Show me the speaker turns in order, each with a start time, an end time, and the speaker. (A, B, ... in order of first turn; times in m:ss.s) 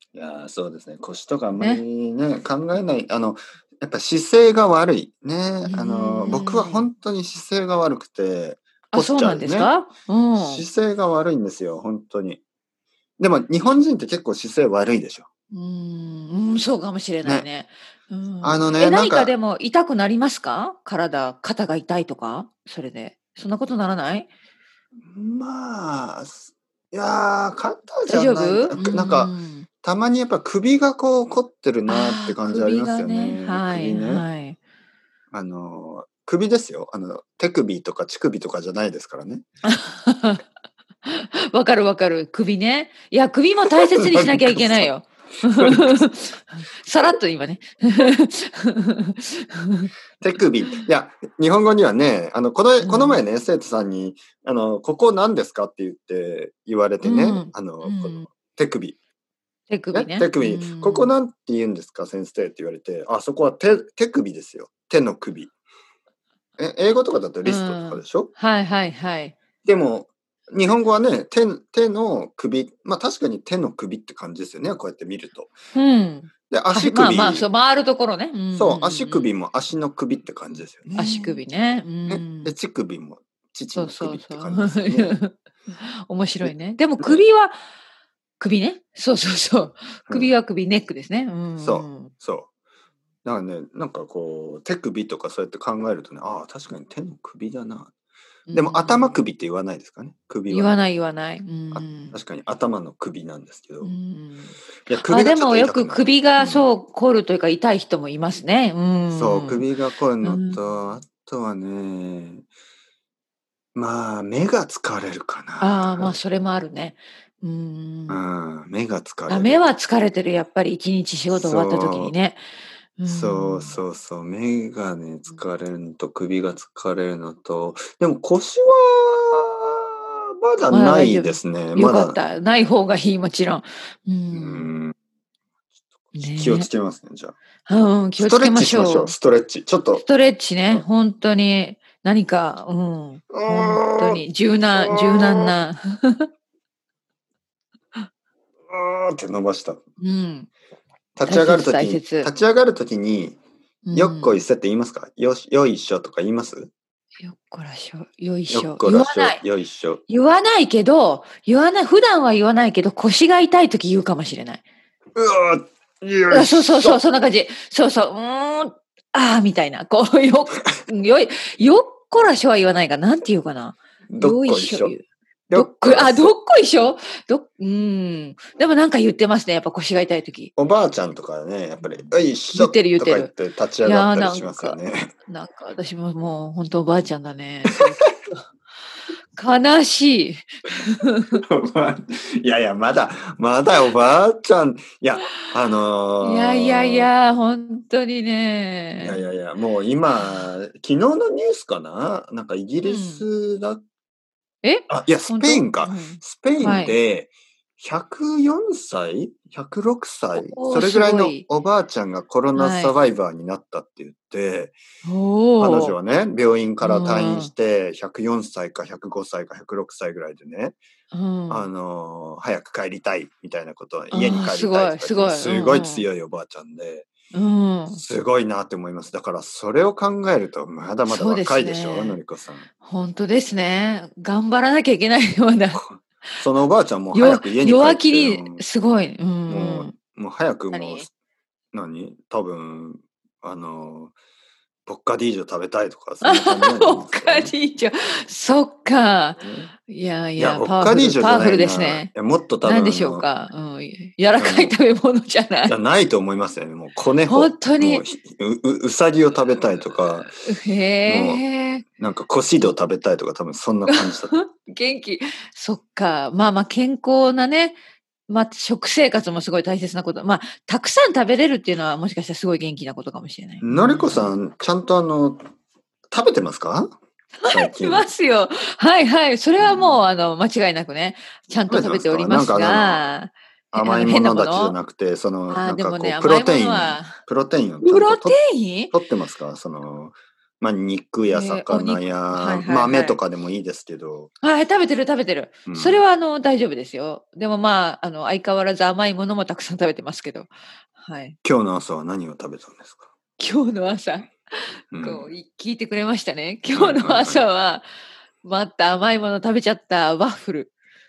0:00.1-0:09.7 A
0:01.6-0:01.8 B
0:05.6-0:06.9 B
0:08.9-0:10.6 B
0:10.4-0:12.4 A
0:13.2-0:15.3 A
0:15.5-0:24.3 B
0:18.4-0:19.3 A
0:25.1-0:34.3 A
0:28.1-0:29.7 B
0:31.9-0:34.6 B
0:35.3-0:39.4 A
0:39.6-0:40.4 B
0:41.0-0:49.9 B
0:43.7-0:44.9 A
0:45.5-0:46.0 A
0:50.2-0:59.0 A
0:52.8-0:53.2 B
0:57.0-0:58.3 B
0:59.7-1:01.1 B
0:59.9-1:05.5 A
1:06.6-1:08.3 A
1:07.4-1:09.4 B
1:09.6-1:15.5 A
1:15.8-1:19.3 B
1:16.5-1:17.5 A
1:18.5-1:21.4 A
1:21.0-1:22.5 B
1:22.1-1:25.2 A
1:23.7-1:27.6 B
1:26.4-1:27.2 A
1:28.4-1:32.1 B
1:31.6-1:32.5 A
1:33.2-1:37.9 A
1:38.5-1:39.2 B
1:38.5-1:40.8 A
1:40.5-1:42.2 B
1:41.7-1:43.9 A
1:43.8-1:49.7 B
1:44.9-1:46.7 A
1:49.1-1:52.4 A
1:50.2-1:50.6 B
1:53.8-1:56.2 A
1:55.6-1:58.2 B
1:58.1-1:59.7 A
1:59.3-2:02.4 B
2:01.3-2:02.1 A
2:03.0-2:03.8 B
2:03.1-2:12.2 A
2:10.7-2:14.7 B
2:14.3-2:14.9 A
2:16.2-2:16.7 B
2:16.3-2:17.4 A
2:17.7-2:19.2 B
2:18.2-2:20.0 A
2:20.0-2:26.3 B
2:23.3-2:24.2 A
2:24.8-2:25.5 A
2:28.7-2:29.8 A
2:30.0-2:30.5 B
2:31.2-2:33.4 A
2:31.3-2:32.3 B
2:33.8-2:34.4 B
2:33.9-2:36.7 A
2:37.2-2:39.4 B
2:38.5-2:40.0 A
2:40.1-2:44.6 B
2:45.2-2:47.0 A
2:46.3-3:00.5 B
2:54.1-2:55.0 A
2:55.5-2:56.4 A
3:00.6-3:05.1 A
3:02.5-3:03.3 B
3:03.8-3:08.4 B
3:09.4-3:11.4 B
3:11.4-3:17.1 A
3:16.2-3:19.2 B
3:19.0-3:23.8 A
3:20.2-3:20.5 B
3:22.8-3:23.2 B
3:24.6-3:27.0 B
3:24.9-3:34.8 A
3:30.4-3:31.4 B
3:32.5-3:32.9 B
3:35.0-3:36.0 B
3:35.6-3:40.8 A
3:36.8-3:37.5 B
3:41.1-3:41.7 B
3:41.5-3:47.1 A
3:44.1-3:46.1 B
3:47.3-3:48.0 B
3:47.9-3:52.7 A
3:51.1-3:52.2 B
3:52.8-3:55.8 B
3:55.7-3:58.6 A
3:57.1-3:59.9 B
3:59.5-4:01.1 A
4:00.7-4:01.1 B
4:01.7-4:04.1 A
4:04.9-4:07.6 A
4:06.2-4:12.1 B
4:09.4-4:09.7 A
4:10.4-4:13.3 A
4:12.6-4:15.7 B
4:14.4-4:14.8 A
4:15.7-4:20.3 A
4:17.3-4:18.1 B
4:20.4-4:21.8 B
4:21.1-4:21.4 A
4:22.0-4:24.4 A
4:23.9-4:34.3 B
4:33.6-4:35.4 A
4:36.1-4:36.9 A
4:37.4-4:44.8 B
4:37.5-4:38.1 A
4:39.6-4:40.0 A
4:41.7-4:43.2 A
4:43.7-4:48.4 A
4:45.5-4:47.2 B
4:47.8-4:48.9 B
4:48.9-4:54.3 A
4:51.3-4:53.2 B
4:54.4-5:01.4 B
4:55.7-4:56.0 A
5:01.4-5:03.1 A
5:03.4-5:04.3 B
5:04.9-5:05.3 A
5:05.0-5:07.9 B
5:06.7-5:07.5 A
5:08.4-5:10.7 B